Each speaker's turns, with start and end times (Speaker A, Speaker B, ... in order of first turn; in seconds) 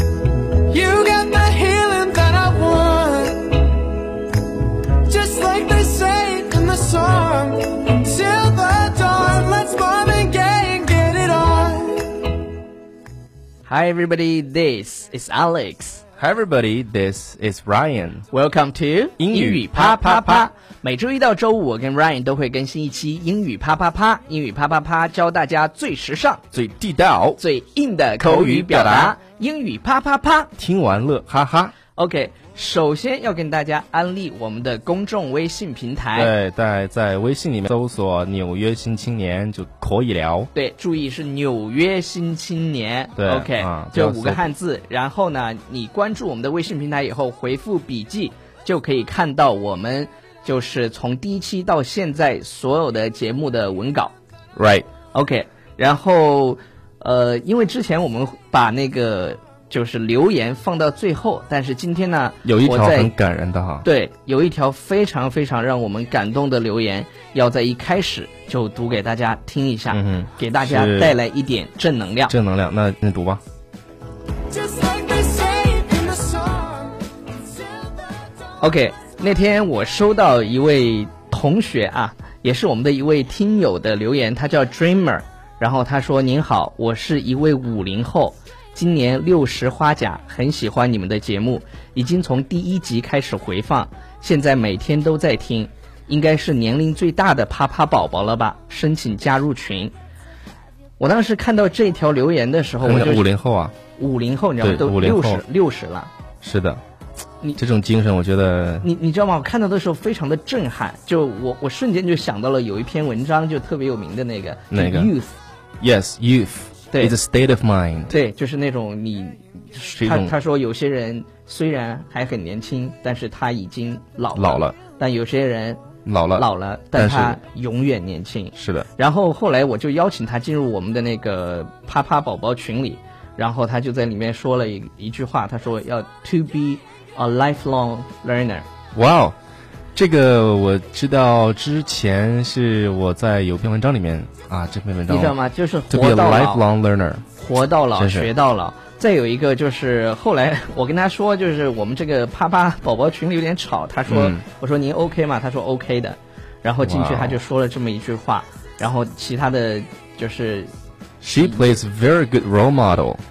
Speaker A: 0.7-3.9, 5.0-12.4, 74.5-77.0
Speaker B: 13.7-16.0, 18.3-26.4, 27.4-30.5, 31.9-36.3, 40.5-54.1, 55.1-63.1, 63.8-72.3, 78.6-99.9, 101.0-103.3, 104.0-106.1, 108.8-115.4, 118.1-125.8, 126.3-138.7, 145.1-146.7, 147.4-160.7
Speaker C: 16.2-18.3, 19.2-20.5, 26.5-27.4, 28.2-29.2, 30.6-31.8, 36.1-40.5, 43.2-44.4, 54.5-54.9, 62.4-63.9, 69.9-71.2, 72.3-73.4, 102.8-103.8, 104.6-105.4, 106.4-106.8, 107.6-108.9, 114.7-115.1, 115.8-118.2, 120.0-120.3, 124.4-124.8, 126.0-127.4, 128.6-128.9, 138.9-139.4, 139.9-145.4, 145.9-147.3, 148.0-148.3, 154.1-154.4, 156.8-157.4, 161.2-163.2